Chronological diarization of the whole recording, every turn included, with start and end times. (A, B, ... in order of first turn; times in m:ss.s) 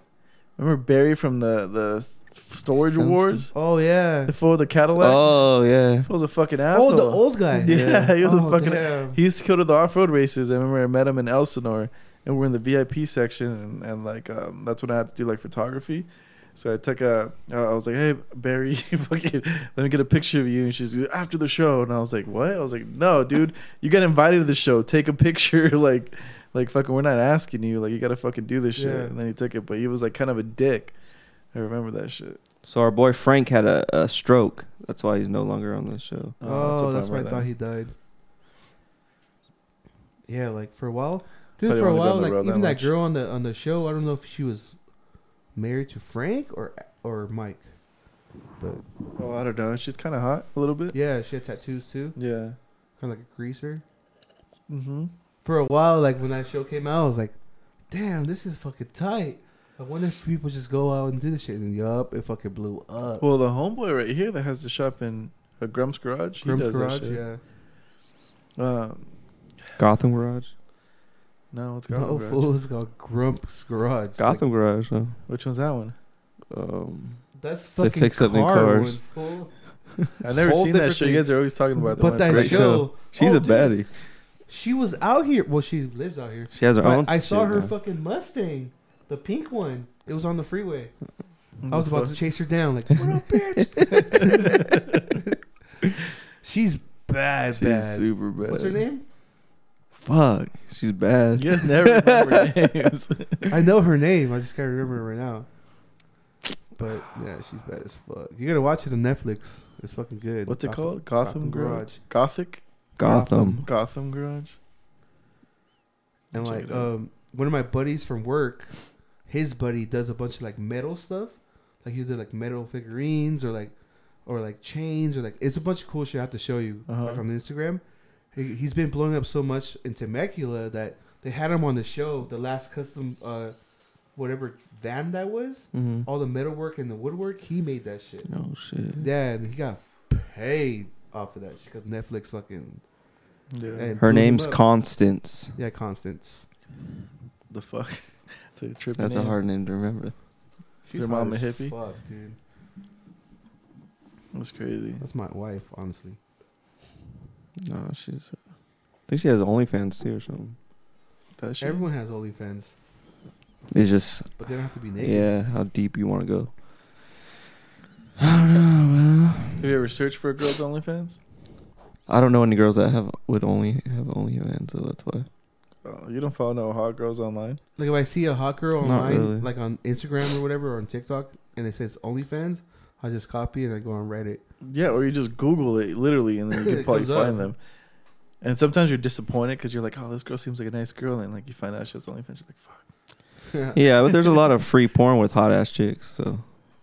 0:00.6-0:03.5 A
0:02.8-0:03.5 B
0:03.5-0:04.3 C
0:04.3-0:05.3 A
0:05.0-0:06.1 B
0:06.1-0:31.0 A
0:06.7-0:09.2 C
0:07.6-0:08.1 B
0:28.8-0:29.2 C
0:31.5-0:32.4 A
0:32.6-0:36.4 B
0:36.4-0:37.5 A
0:36.4-0:37.9 C
0:40.3-0:44.8 C
0:41.7-0:42.9 A
0:45.6-0:47.6 C
0:49.2-0:51.0 A
0:50.9-0:52.2 C
0:52.2-0:52.6 A
0:53.0-0:53.8 C
0:54.7-0:55.1 A
0:55.4-0:57.4 C
0:57.9-1:03.3 C
1:03.2-1:07.2 A
1:06.4-1:07.4 C
1:08.6-1:09.1 A
1:09.8-1:10.5 B
1:11.5-1:12.5 A
1:11.9-1:14.4 C
1:14.2-1:15.2 B
1:15.3-1:16.0 A
1:16.5-1:17.2 B
1:17.4-1:19.5 C
1:17.8-1:19.0 B
1:20.0-1:21.3 C
1:20.2-1:22.8 A
1:22.0-1:23.8 C
1:22.2-1:24.0 B
1:24.5-1:31.0 C
1:26.5-1:27.7 B
1:31.6-1:32.2 A
1:31.7-1:35.9 C
1:34.2-1:35.1 A
1:36.4-1:39.0 C
1:37.5-1:38.8 B
1:39.9-1:42.5 B
1:41.4-1:43.5 A
1:43.5-1:45.5 C
1:46.7-1:52.0 C
1:50.5-1:52.7 A
1:53.0-1:53.6 B
1:53.0-1:53.7 C
1:53.3-1:54.6 A
1:56.3-1:56.9 A
1:56.3-2:03.7 C
2:04.2-2:07.8 C
2:06.9-2:07.2 A
2:08.3-2:13.6 C
2:14.2-2:18.3 C
2:15.7-2:16.1 B
2:18.3-2:19.1 B
2:19.0-2:22.8 C
2:23.5-2:23.9 A
2:23.8-2:24.6 C
2:24.0-2:25.6 B
2:25.6-2:26.4 C
2:27.5-2:29.4 A
2:29.0-2:30.1 B
2:30.9-2:32.4 C
2:30.9-2:31.8 A
2:34.3-2:35.0 A
2:35.0-2:36.2 C
2:37.6-2:38.4 B
2:39.1-2:40.6 B
2:41.4-2:41.8 A
2:41.6-2:42.8 C
2:43.7-2:44.4 B
2:44.4-2:45.3 C
2:45.0-2:47.2 B
2:48.2-2:49.6 B
2:49.6-2:51.2 A
2:52.1-2:55.3 B
2:55.8-2:57.6 A
2:57.8-3:04.4 C
2:58.8-2:59.5 B
3:04.6-3:07.6 A
3:06.5-3:07.5 C
3:08.4-3:12.8 A
3:13.5-3:13.9 C
3:13.7-3:16.4 B